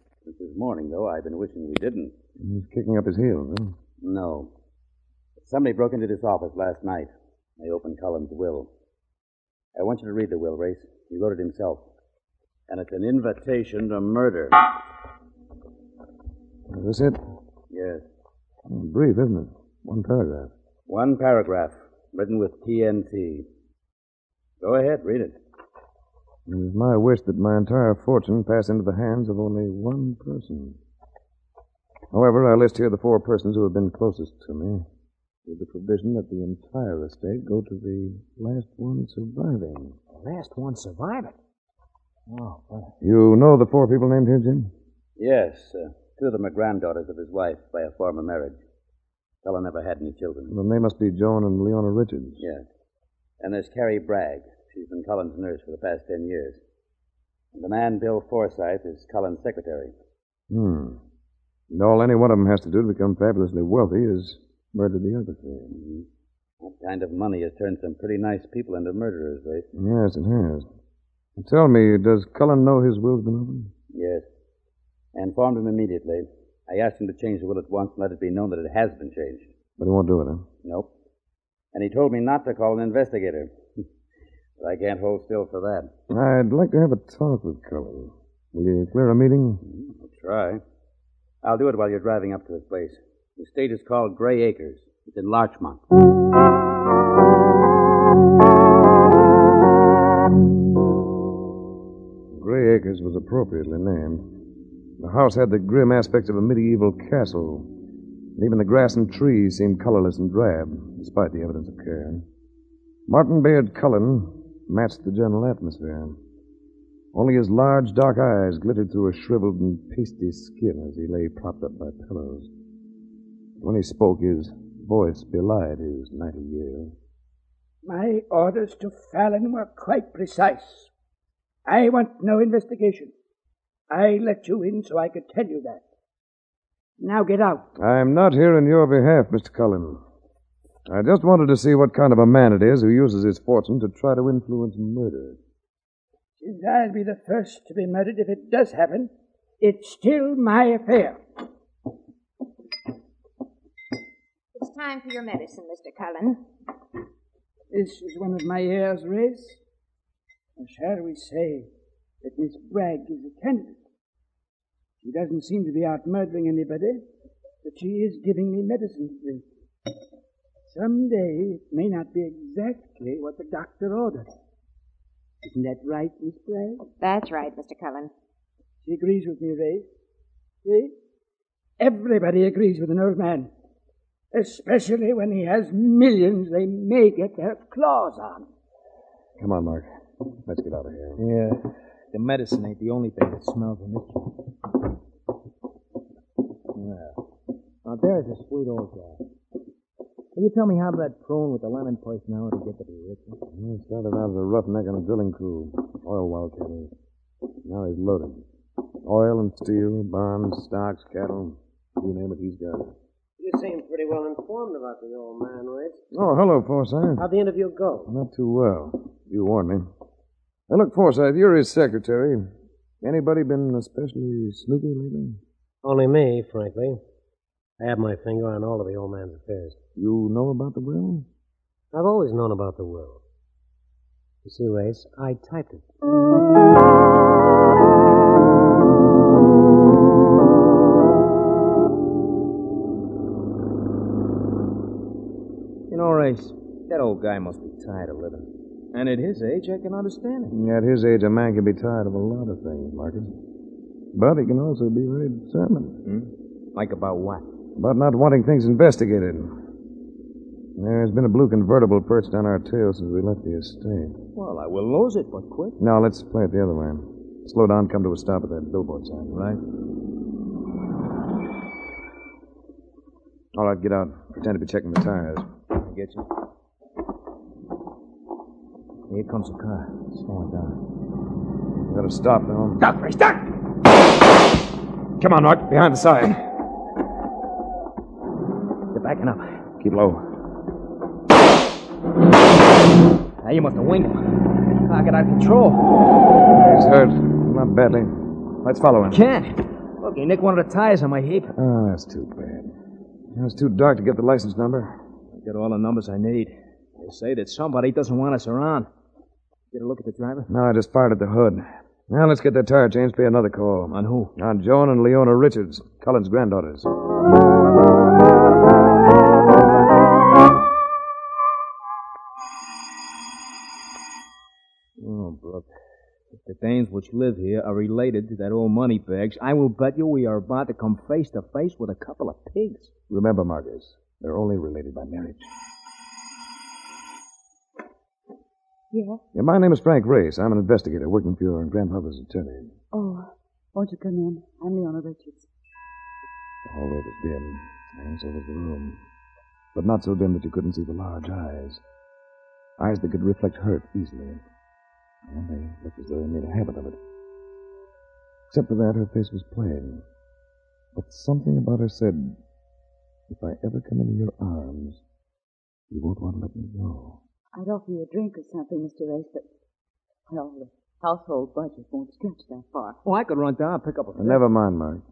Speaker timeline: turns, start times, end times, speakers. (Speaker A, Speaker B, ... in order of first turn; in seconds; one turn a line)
Speaker A: 0.2-2.1
Speaker B: 2.4-3.8
Speaker A: 4.0-4.5
Speaker A: 5.4-8.7
Speaker A: 9.8-11.8
Speaker A: 12.7-14.7
Speaker B: 16.7-17.2
Speaker A: 17.7-18.1
Speaker B: 18.7-20.5
Speaker A: 20.9-23.5
Speaker A: 24.6-25.4
Speaker B: 26.5-30.8
Speaker B: 32.1-34.9
Speaker B: 35.5-40.0
Speaker C: 40.1-41.4
Speaker C: 42.3-42.9
Speaker B: 43.0-44.7
Speaker A: 45.2-48.6
Speaker A: 49.4-50.5
Speaker B: 50.5-52.4
Speaker A: 53.4-56.6
Speaker A: 57.5-59.9
Speaker B: 60.5-61.0
Speaker B: 61.7-65.8
Speaker A: 65.7-66.1
Speaker A: 66.6-69.7
Speaker B: 69.7-70.7
Speaker B: 71.4-73.7
Speaker A: 73.9-74.3
Speaker A: 75.1-79.5
Speaker B: 79.8-80.5
Speaker A: 80.6-80.9
Speaker A: 81.7-83.5
Speaker A: 84.6-85.9
Speaker B: 86.1-89.6
Speaker A: 89.7-90.6
Speaker A: 91.4-95.8
Speaker B: 102.3-104.2
Speaker B: 105.0-107.7
Speaker B: 108.4-112.2
Speaker B: 113.1-116.2
Speaker B: 117.1-122.5
Speaker B: 123.6-127.0
Speaker D: 127.8-130.9
Speaker D: 131.7-133.1
Speaker D: 133.9-135.8
Speaker D: 137.0-137.7
Speaker B: 137.8-140.0
Speaker B: 140.9-145.4
Speaker D: 146.4-151.2
Speaker E: 154.6-156.4
Speaker D: 157.7-159.6
Speaker D: 160.6-161.7
Speaker D: 162.2-163.8
Speaker D: 165.0-167.1
Speaker D: 167.6-169.4
Speaker D: 170.7-174.3
Speaker D: 175.4-176.8
Speaker E: 177.0-178.1
Speaker D: 178.8-179.9
Speaker D: 180.7-180.9
Speaker D: 181.8-183.5
Speaker D: 184.3-188.4
Speaker B: 189.4-189.9
Speaker B: 190.5-191.2
Speaker C: 191.2-194.3
Speaker C: 196.8-197.2
Speaker C: 197.8-199.2
Speaker C: 200.3-203.4
Speaker B: 203.5-206.9
Speaker B: 207.6-208.4
Speaker B: 209.0-212.9
Speaker F: 213.4-216.0
Speaker B: 216.1-217.3
Speaker F: 217.2-218.1
Speaker B: 218.1-219.9
Speaker B: 220.7-222.5
Speaker B: 223.0-225.4
Speaker F: 225.8-227.0
Speaker F: 227.8-229.8
Speaker B: 230.0-231.3
Speaker F: 231.9-233.2
Speaker F: 234.4-235.8
Speaker C: 245.9-250.5
Speaker B: 250.5-253.4
Speaker B: 254.1-256.0
Speaker C: 256.1-257.4
Speaker B: 257.8-259.5
Speaker B: 260.8-264.2
Speaker C: 264.4-265.8
Speaker B: 265.8-269.4
Speaker C: 269.3-269.6
Speaker B: 273.5-275.5
Speaker C: 275.8-276.2
Speaker C: 279.1-280.8
Speaker B: 281.8-282.8
Speaker C: 282.8-283.6
Speaker B: 285.2-286.4
Speaker C: 288.9-289.6
Speaker B: 289.8-290.2
Speaker C: 293.4-295.9
Speaker B: 296.6-299.2
Speaker C: 299.1-301.5
Speaker B: 301.5-302.8
Speaker B: 303.3-305.0
Speaker C: 305.3-308.9
Speaker C: 309.7-310.5
Speaker B: 310.5-316.9
Speaker C: 313.9-314.3
Speaker C: 325.0-325.7
Speaker C: 326.3-332.9
Speaker B: 333.1-335.5
Speaker E: 338.9-339.2
Speaker B: 339.3-342.7
Speaker G: 342.9-345.5
Speaker B: 346.7-349.0
Speaker B: 349.7-351.8
Speaker B: 352.8-354.4
Speaker B: 355.2-357.0
Speaker B: 358.5-360.0
Speaker B: 360.9-362.4
Speaker B: 363.3-365.0
Speaker B: 365.9-367.2
Speaker G: 367.6-369.5
Speaker G: 370.3-373.0
Speaker C: 373.1-374.4
Speaker B: 374.1-375.0